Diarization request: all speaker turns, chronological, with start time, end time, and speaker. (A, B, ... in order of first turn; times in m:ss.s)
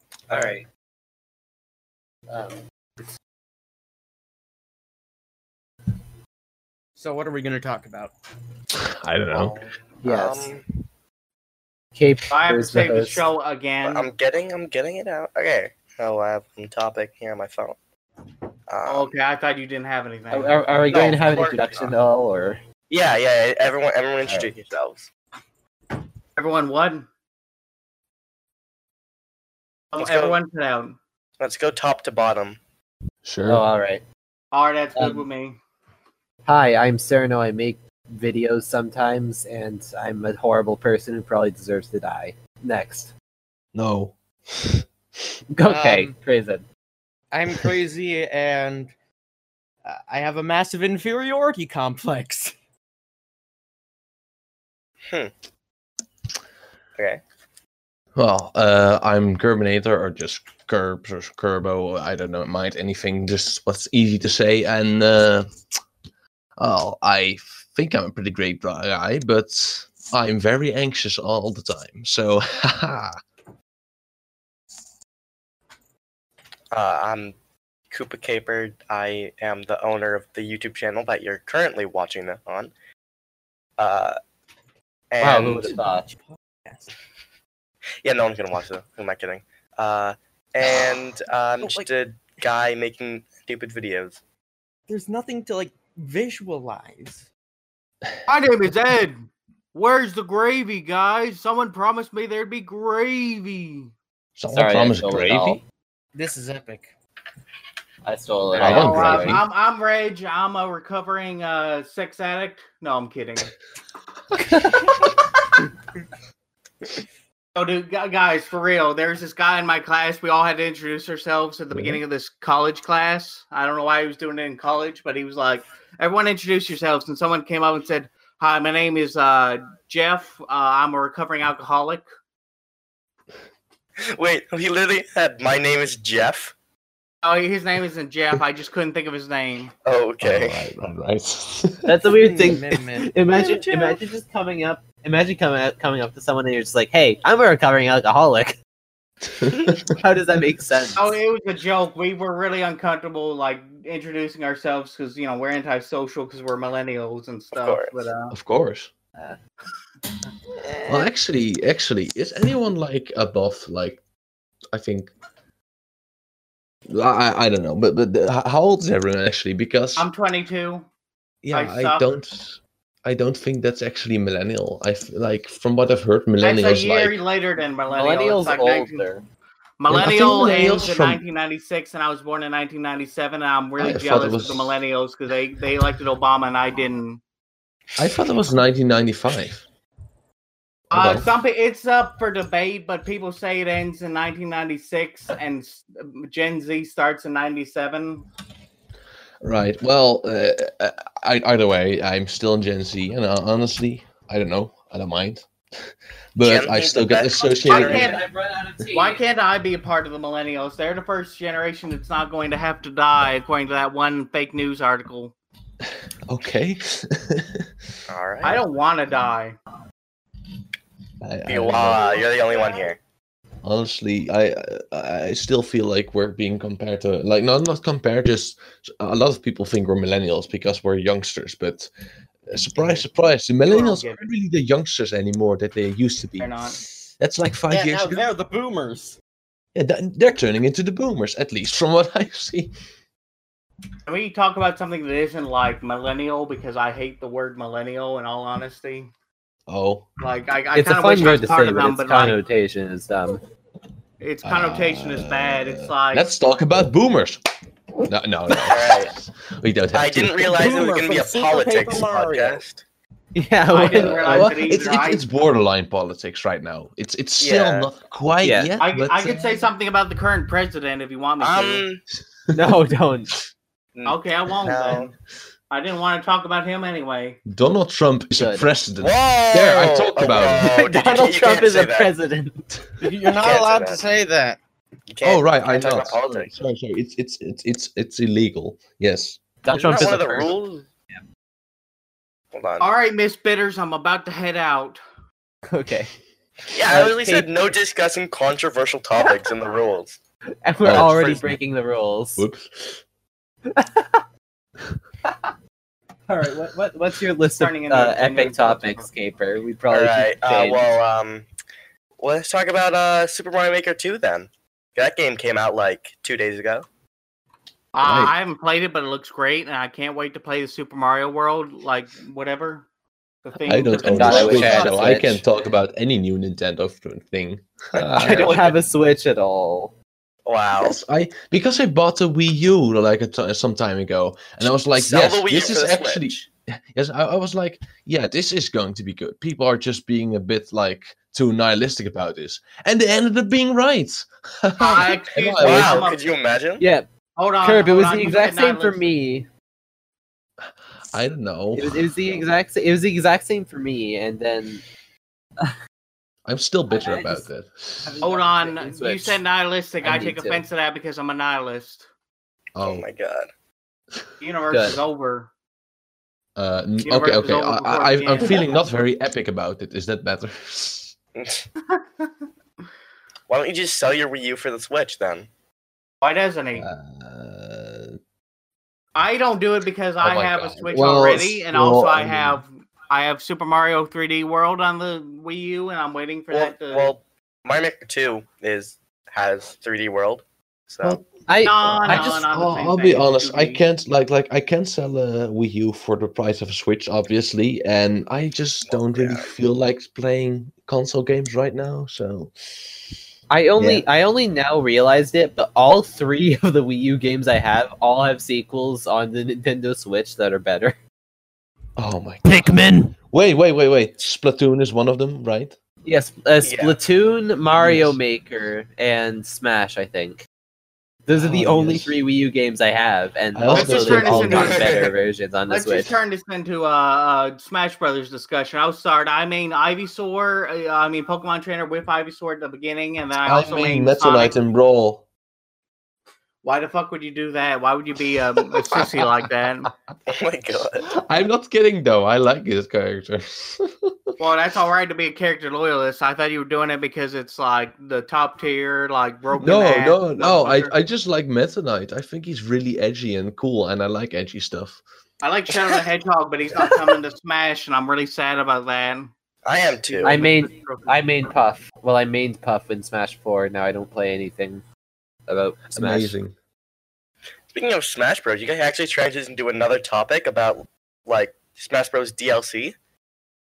0:00.3-0:00.6 A
0:00.3-0:00.6 B
0:02.3-0:02.6 B
0:07.0-0:08.1 C
0:08.7-0:09.6 D
0:09.3-0:10.6 A
0:10.0-0:10.6 B
0:12.0-0:13.3 B
0:12.3-0:14.1 E
0:13.8-0:17.8 A
0:18.7-0:19.1 A
0:18.8-0:20.6 E
0:20.3-0:22.6 B
0:20.9-0:21.9 A
0:22.9-0:25.1 A
0:26.4-0:27.0 E
0:29.9-0:31.0 E
0:30.0-0:30.4 A
0:31.4-0:32.6 A
0:33.2-0:33.6 D
0:33.5-0:34.0 B
0:34.5-0:35.6 E
0:35.0-0:35.2 B
0:36.4-0:43.1 B
0:43.7-0:44.8 D
0:45.5-0:46.6 B
0:45.6-0:46.1 C
0:47.3-0:48.9 C
0:49.8-0:52.5 C
0:57.0-0:57.2 A
0:58.1-1:05.5 D
1:06.6-1:13.2 D
1:16.7-1:17.3 A
1:17.9-1:22.7 A
1:23.8-1:24.2 A
1:25.1-1:25.8 A
1:25.2-1:26.0 B
1:25.7-1:26.9 C
1:28.0-1:34.2 A
1:31.6-1:31.9 C
1:34.9-1:37.2 C
1:38.3-1:39.2 E
1:39.7-1:43.9 E
1:44.4-1:45.6 D
1:44.5-1:45.6 B
1:46.1-1:46.9 C
1:48.0-1:49.4 B
1:48.6-1:49.4 D
1:48.6-1:53.5 E
1:54.4-1:55.2 B
1:57.5-2:12.0 E
2:01.7-2:02.0 D
2:14.1-2:16.5 A
2:17.2-2:19.7 E
2:19.8-2:20.6 A
2:20.2-2:22.0 D
2:21.8-2:28.6 B
2:22.2-2:24.0 C
2:29.3-2:30.0 D
2:29.9-2:31.1 B
2:31.0-2:38.3 E
2:37.5-2:37.9 A
2:38.3-2:38.9 D
2:40.7-2:41.0 C
2:40.8-2:44.0 D
2:44.7-2:45.1 D
2:46.9-2:50.1 D
2:50.0-2:50.8 E
2:51.4-2:57.2 D
2:51.5-2:52.1 E
2:56.4-2:59.1 E
2:57.9-2:59.2 B
2:59.8-3:07.2 E
2:59.9-3:01.2 D
3:03.8-3:04.8 D
3:08.0-3:09.6 D
3:10.9-3:11.3 D
3:10.9-3:18.2 E
3:19.4-3:25.4 D
3:26.4-3:28.2 D
3:26.4-3:28.1 A
3:27.7-3:29.2 B
3:27.7-3:28.2 E
3:28.9-3:35.3 E
3:35.8-3:37.7 D
3:38.1-3:38.6 A
3:38.4-3:39.6 E
3:41.2-3:42.0 D
3:41.5-3:43.0 A
3:42.5-3:42.8 C
3:43.6-3:51.9 D
3:52.5-3:58.2 D
3:53.6-3:54.2 E
3:56.4-3:56.8 E
3:57.7-3:59.2 C
3:59.7-4:02.7 D
4:04.0-4:09.1 E
4:09.7-4:10.1 D
4:10.2-4:12.4 E
4:10.7-4:13.4 B
4:14.2-4:16.3 E
4:14.4-4:17.4 D
4:18.0-4:20.5 D
4:18.7-4:19.1 A
4:19.9-4:22.8 A
4:20.5-4:22.6 C
4:23.3-4:24.5 B
4:23.7-4:25.2 E
4:23.9-4:29.6 D
4:27.4-4:27.9 A
4:28.4-4:28.8 B
4:28.8-4:31.8 E
4:31.4-4:32.0 A
4:32.5-4:33.3 B
4:33.9-4:35.1 A
4:34.0-4:35.1 E
4:35.7-4:37.4 E
4:37.4-4:40.7 D
4:38.4-4:38.6 B
4:39.0-4:42.1 A
4:40.5-4:42.7 B
4:43.0-4:44.6 C
4:43.4-4:44.0 A
4:45.1-4:46.5 A
4:45.2-4:50.3 D
4:49.6-4:50.5 B
4:49.7-4:50.8 A
4:52.5-4:52.9 A
4:52.8-4:55.0 E
4:55.7-4:56.1 B
4:56.7-5:00.2 A
4:56.8-4:57.5 B
5:00.6-5:02.4 B
5:00.8-5:01.6 D
5:00.9-5:01.4 A
5:02.4-5:03.0 D
5:03.7-5:04.2 B
5:05.2-5:05.5 B
5:06.3-5:10.9 B
5:07.6-5:09.1 E
5:09.9-5:11.4 A
5:12.2-5:16.8 A
5:17.9-5:22.9 E
5:18.0-5:18.3 D
5:23.4-5:25.2 E
5:23.6-5:28.8 D
5:24.0-5:25.4 B
5:28.0-5:28.6 A
5:28.0-5:29.9 B
5:30.4-5:31.0 A
5:30.8-5:46.1 D
5:35.0-5:36.4 A
5:44.8-5:46.2 E
5:45.6-5:46.8 A
5:46.8-5:47.1 B
5:47.4-5:49.0 E
5:47.6-5:49.5 B
5:50.6-5:52.2 D
5:51.7-5:54.8 B
5:56.4-5:58.1 D
5:56.9-5:57.4 B
5:58.0-5:59.4 B
5:58.2-6:02.1 E
6:00.0-6:00.6 B
6:02.8-6:03.0 D
6:02.8-6:03.5 A
6:04.4-6:05.5 E
6:04.7-6:05.0 B
6:06.6-6:11.2 D
6:07.0-6:08.7 E
6:11.4-6:11.6 A
6:11.9-6:12.3 E
6:13.5-6:15.5 A
6:16.2-6:16.9 E
6:16.8-6:18.2 D
6:19.1-6:27.1 E
6:20.2-6:22.6 D
6:26.5-6:31.2 A
6:31.0-6:43.0 D
6:31.5-6:32.5 B
6:31.6-6:33.8 E
6:38.9-6:39.4 A
6:43.5-6:50.9 B
6:43.8-6:44.0 D
6:52.0-6:55.8 D
6:52.4-6:53.1 B
6:56.0-7:00.4 B
6:56.6-6:57.0 A
6:57.8-6:58.2 D
7:01.2-7:06.2 B
7:01.3-7:02.2 D
7:03.5-7:05.0 D
7:03.7-7:04.9 E
7:04.6-7:05.1 A
7:05.7-7:14.6 E
7:13.4-7:15.2 D
7:16.6-7:19.9 E
7:18.8-7:19.4 D
7:20.3-7:21.1 A
7:21.0-7:24.1 D
7:24.4-7:30.9 E
7:29.6-7:35.0 D
7:35.4-7:39.3 E
7:39.6-7:40.4 A
7:40.0-7:41.2 E
7:40.2-7:44.8 B
7:45.5-7:46.3 B
7:45.9-7:46.5 D
7:47.7-7:52.9 A